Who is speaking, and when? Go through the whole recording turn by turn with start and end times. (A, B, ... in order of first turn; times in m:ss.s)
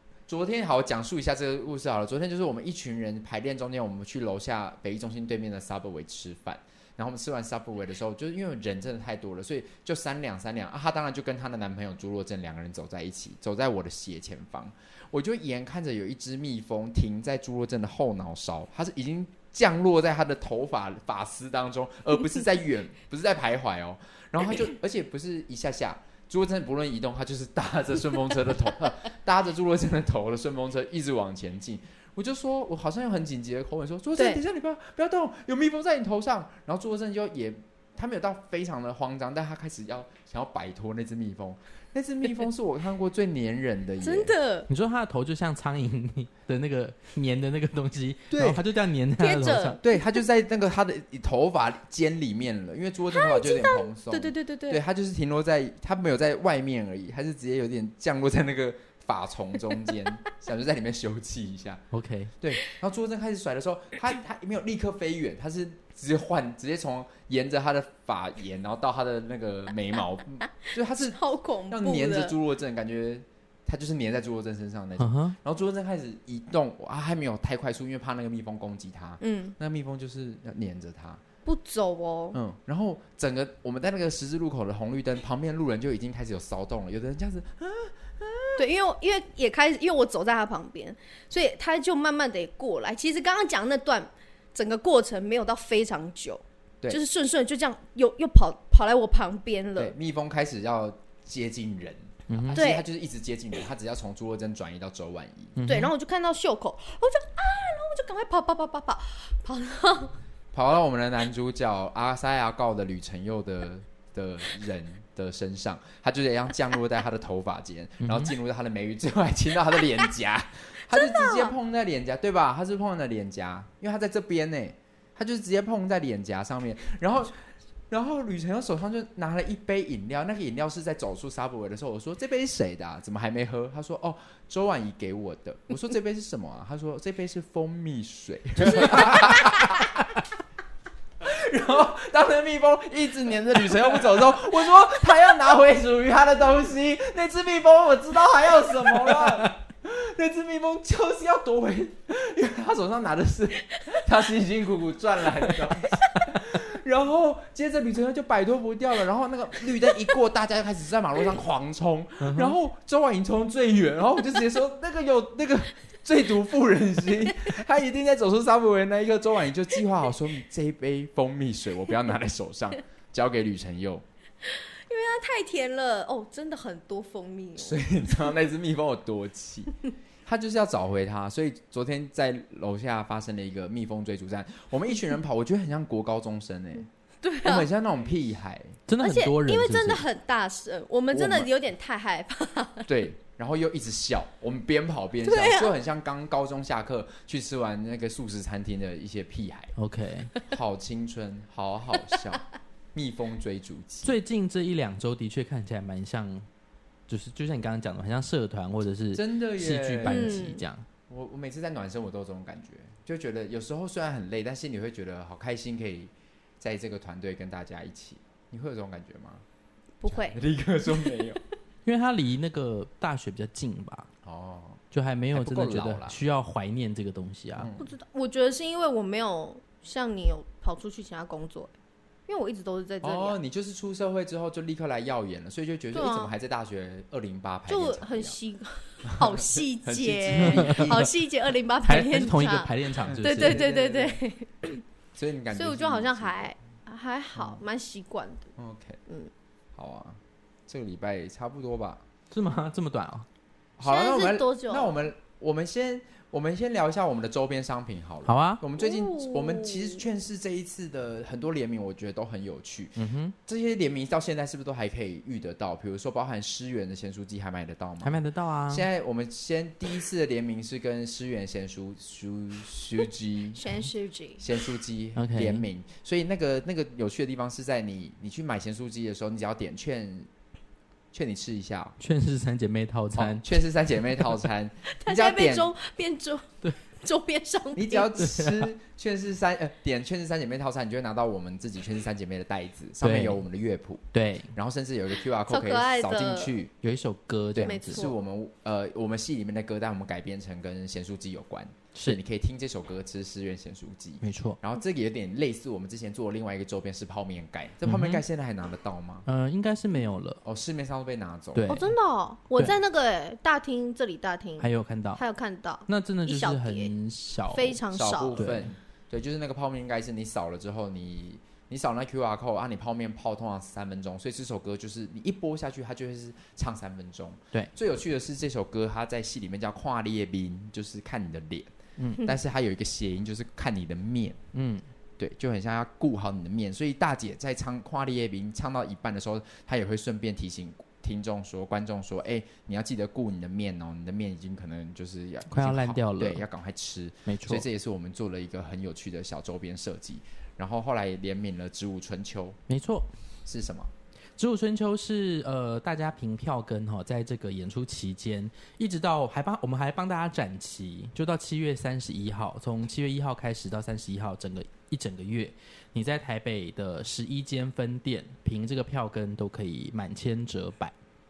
0:00.3-0:44.3 A
0:34.2-0:34.4 B
0:44.0-0:44.7 B
0:44.7-0:49.8 C
0:48.3-0:48.6 A
0:49.2-0:50.0 B
0:49.8-1:01.8 A
0:53.1-0:54.8 B
1:01.9-1:02.3 C
1:02.4-1:21.2 A
1:11.0-1:12.4 B
1:15.0-1:15.4 C
1:19.2-1:19.6 B
1:21.4-1:22.4 B
1:22.3-1:28.6 A
1:28.6-1:39.9 B
1:39.8-1:45.6 A
1:42.3-1:42.6 C
1:42.5-1:42.9 B
1:45.6-1:45.9 C
1:45.7-1:50.2 B
1:50.5-2:20.0 A
1:58.0-1:58.3 C
2:00.9-2:01.5 B
2:18.8-2:19.3 B
2:21.2-2:54.0 A
2:42.2-2:42.5 C
2:54.4-2:57.9 B
2:57.6-2:59.7 A
3:00.2-3:06.9 A
3:07.2-3:07.7 B
3:07.4-3:08.8 A
3:08.9-3:10.0 C
3:09.0-3:12.9 B
3:11.1-3:11.5 A
3:12.9-3:19.7 A
3:15.2-3:15.7 B
3:19.8-3:20.3 C
3:20.5-3:22.4 A
3:22.9-3:24.2 A
3:24.0-3:26.5 C
3:27.1-3:30.8 C
3:29.1-3:30.4 A
3:30.0-3:30.6 B
3:31.1-3:39.4 A
3:40.0-3:41.4 B
3:40.1-3:41.4 A
3:41.8-3:44.1 C
3:44.2-3:44.8 A
3:44.9-3:47.7 C
3:45.3-3:46.2 A
3:47.6-3:47.9 A
3:47.8-3:51.7 B
3:52.3-3:53.4 B
3:53.0-3:58.4 A
3:55.9-3:56.3 B
3:57.7-4:04.8 B
3:59.1-4:01.1 A
4:00.4-4:01.1 C
4:01.8-4:03.6 C
4:03.0-4:04.2 A
4:05.1-4:06.5 A
4:05.5-4:08.5 B
4:07.3-4:07.6 A
4:08.6-4:09.0 A
4:09.7-4:12.0 A
4:12.3-4:13.2 C
4:13.8-4:33.8 A
4:13.8-4:15.0 B
4:18.2-4:18.6 C
4:18.8-4:20.0 B
4:23.0-4:23.3 C
4:28.0-4:28.9 C
4:33.6-4:34.5 B
4:34.4-4:40.3 A
4:35.2-4:35.6 C
4:41.1-4:42.0 A
4:42.0-4:43.5 C
4:43.2-4:45.7 A
4:45.0-4:48.1 B
4:47.7-4:56.7 A
4:48.2-4:48.7 C
4:53.0-4:53.4 C
4:54.1-4:54.5 C
4:55.5-4:56.5 B
4:56.8-4:58.0 C
4:57.5-5:09.2 A
4:57.6-4:58.2 B
5:01.9-5:02.2 C
5:04.2-5:04.6 C
5:07.8-5:08.2 C
5:09.2-5:10.4 C
5:10.4-5:11.8 A
5:11.5-5:12.0 C
5:11.7-5:16.9 B
5:14.6-5:15.2 C
5:15.9-5:17.8 C
5:17.5-5:18.4 B
5:17.9-5:34.4 A
5:18.4-5:18.7 C
5:32.0-5:32.3 C
5:34.5-5:34.8 C
5:35.2-5:52.6 A
5:45.5-5:46.4 C
5:47.2-5:47.6 C
5:52.7-5:53.1 C
5:53.4-5:53.9 A
5:54.4-6:10.9 C